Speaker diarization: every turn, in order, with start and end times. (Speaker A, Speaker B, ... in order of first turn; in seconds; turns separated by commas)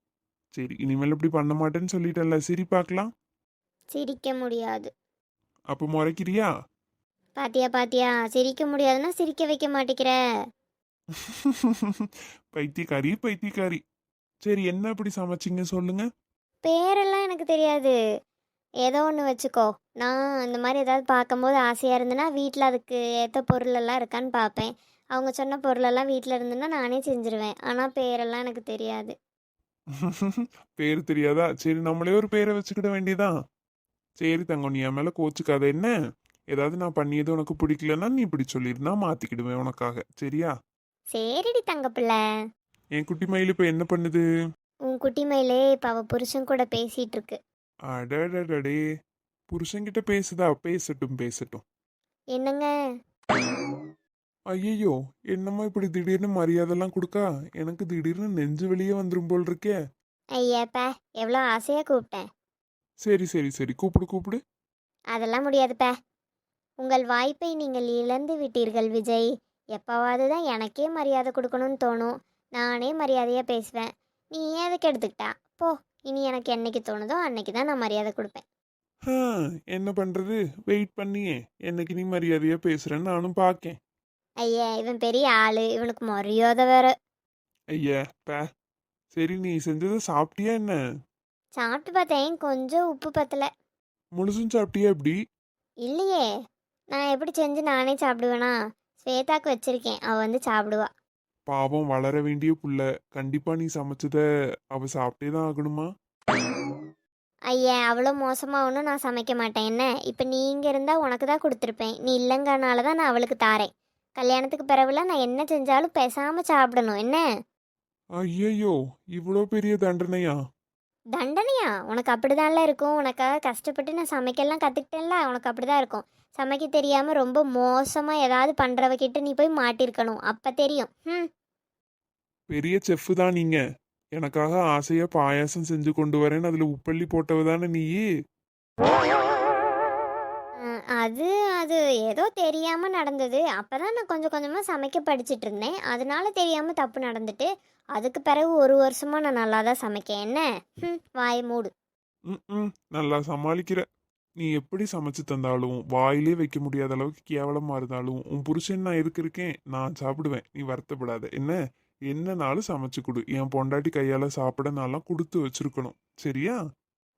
Speaker A: 0.6-3.1, Speaker B: 3.9-4.9, Speaker A: 5.7-6.5, Speaker B: 7.4-10.2, Speaker A: 11.4-13.8, Speaker A: 14.4-16.1, Speaker B: 16.6-17.9, Speaker B: 18.8-29.1, Speaker A: 30.0-33.3, Speaker A: 34.2-35.9, Speaker A: 36.5-40.5, Speaker B: 41.1-42.2, Speaker A: 43.0-44.2, Speaker B: 44.9-47.4, Speaker A: 47.9-48.8, Speaker A: 49.5-51.6, Speaker B: 52.4-52.7, Speaker A: 54.5-59.8, Speaker B: 60.4-62.3, Speaker A: 63.0-64.4, Speaker B: 65.1-65.9, Speaker B: 66.8-78.4, Speaker A: 79.1-83.8, Speaker B: 84.4-86.9, Speaker A: 87.8-88.5, Speaker A: 89.1-90.8, Speaker B: 91.6-93.5, Speaker A: 94.2-95.2, Speaker B: 95.9-96.3, Speaker B: 96.9-100.9, Speaker A: 101.5-104.2, Speaker A: 104.7-105.9, Speaker B: 107.5-117.2, Speaker A: 118.2-120.4, Speaker B: 121.2-131.3, Speaker A: 132.5-133.6, Speaker A: 134.2-138.0, Speaker B: 140.7-151.7, Speaker A: 152.3-153.8, Speaker A: 154.4-161.6, Speaker A: 162.1-166.6